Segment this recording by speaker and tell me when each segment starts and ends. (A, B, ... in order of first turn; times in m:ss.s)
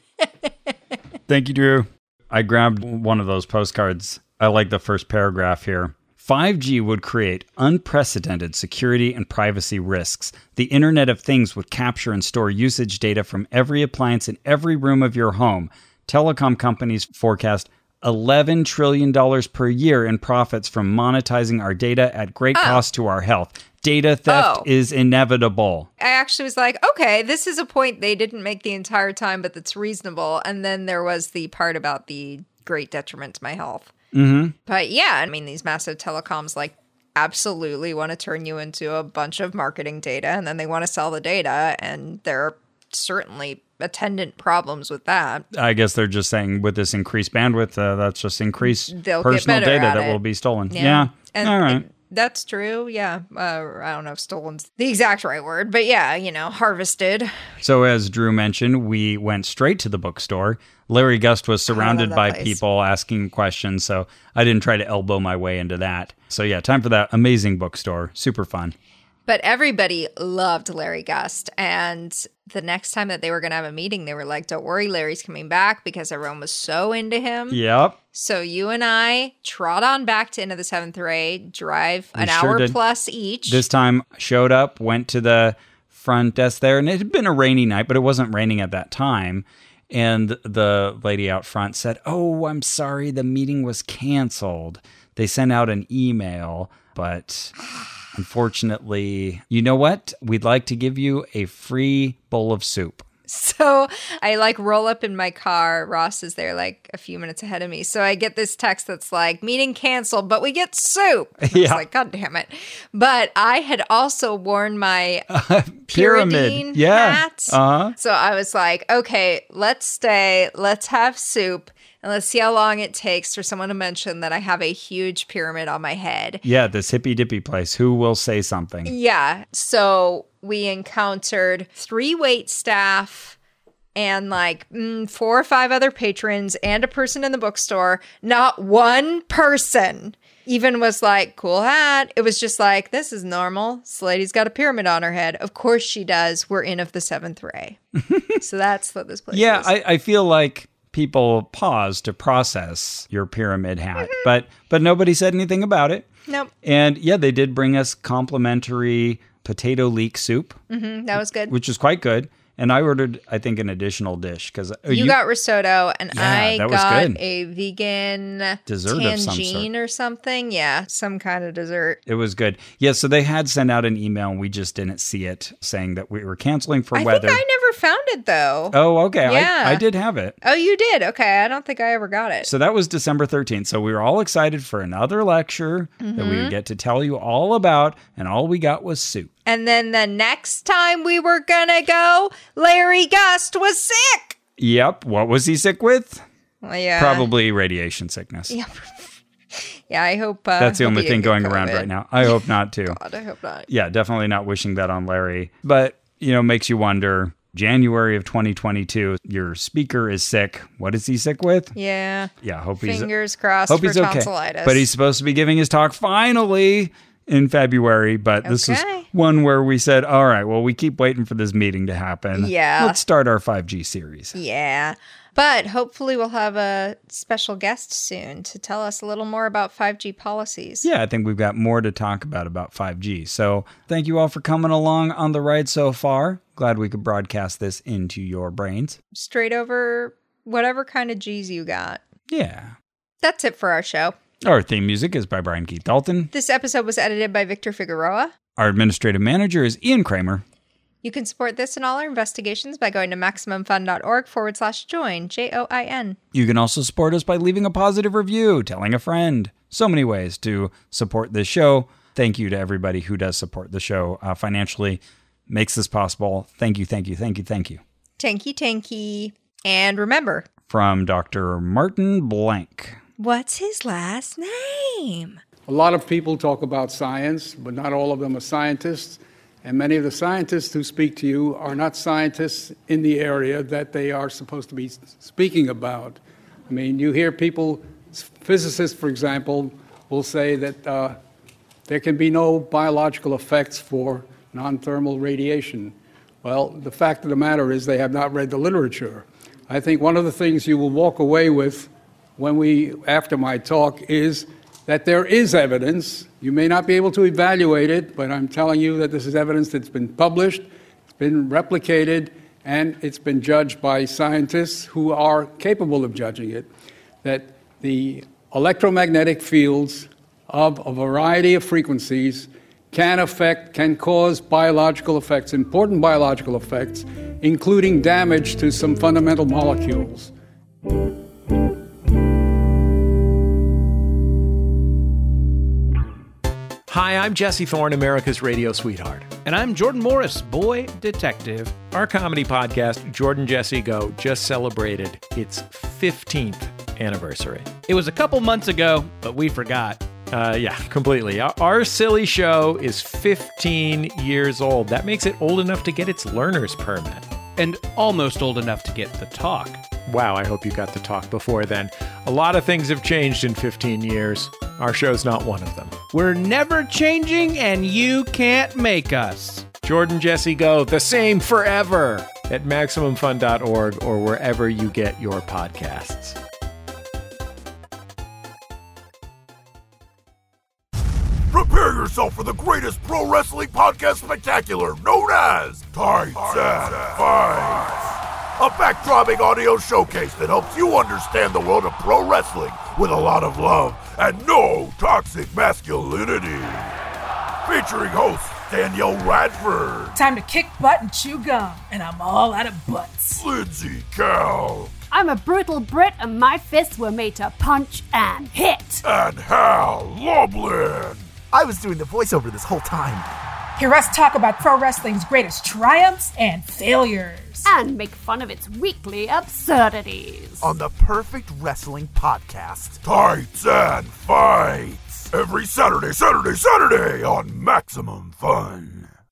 0:01.3-0:25.9 A
0:22.5-0:22.8 B
0:24.3-0:24.6 B
0:26.0-0:33.9 B
0:34.1-0:34.5 A
0:34.6-0:45.5 B
0:45.5-0:51.8 A
0:48.6-0:57.3 B
0:57.6-1:08.7 A
1:01.7-1:02.6 B
1:09.3-1:17.6 B
1:17.5-1:18.0 A
1:18.1-1:23.6 B
1:22.2-1:22.8 A
1:23.5-1:37.5 A
1:38.1-1:43.0 A
1:43.3-1:55.3 B
1:51.4-1:51.8 A
1:55.3-1:57.9 A
1:55.9-2:06.4 B
2:06.4-2:08.9 A
2:08.8-2:13.4 B
2:13.9-2:27.8 B
2:28.4-2:29.7 B
2:29.3-2:36.1 A
2:36.6-2:40.6 A
2:40.7-2:41.6 B
2:41.4-2:45.2 A
2:44.9-2:52.0 B
2:46.1-2:47.2 A
2:48.7-2:49.7 A
2:52.1-2:57.4 A
2:56.9-2:59.8 B
2:58.7-3:00.4 A
3:00.4-3:02.5 B
3:02.4-3:09.3 A
3:06.0-3:06.6 B
3:09.4-3:14.4 B
3:14.6-3:16.2 A
3:16.6-3:17.3 B
3:17.0-3:18.5 A
3:18.5-3:23.7 B
3:20.6-3:23.0 A
3:23.7-3:31.7 A
3:31.7-3:34.9 B
3:32.4-3:33.1 A
3:33.7-3:44.4 A
3:38.4-3:39.1 B
3:42.3-3:43.0 B
3:44.3-3:50.9 B
3:50.8-3:59.0 A
3:59.1-4:02.0 B
4:02.3-4:02.7 A
4:03.2-4:04.1 B
4:04.4-4:06.3 A
4:06.3-4:08.3 B
4:08.6-4:10.4 A
4:11.0-4:16.2 B
4:16.3-4:27.8 A
4:28.2-4:30.5 B
4:30.7-4:33.0 A
4:33.2-4:35.4 B
4:35.7-4:51.2 C
4:51.9-5:10.7 C
5:11.2-5:16.7 C
5:17.2-5:30.3 C
5:36.9-5:39.5 D
5:39.4-5:41.7 E
5:41.5-5:47.9 D
5:47.8-5:50.0 E
5:49.2-5:49.6 D
5:50.2-5:57.3 D
5:57.6-5:59.8 E
6:00.0-6:06.1 D
6:06.1-6:09.7 E
6:09.7-6:16.4 D
6:21.5-6:36.9 F
6:37.6-6:40.1 F
6:40.1-6:43.4 G
6:43.4-6:44.9 F
6:45.1-6:49.0 H
6:49.0-6:51.3 F
6:51.5-6:53.3 I
6:53.8-6:57.7 G
6:57.6-7:00.7 H
7:00.6-7:03.0 I
7:03.0-7:09.1 F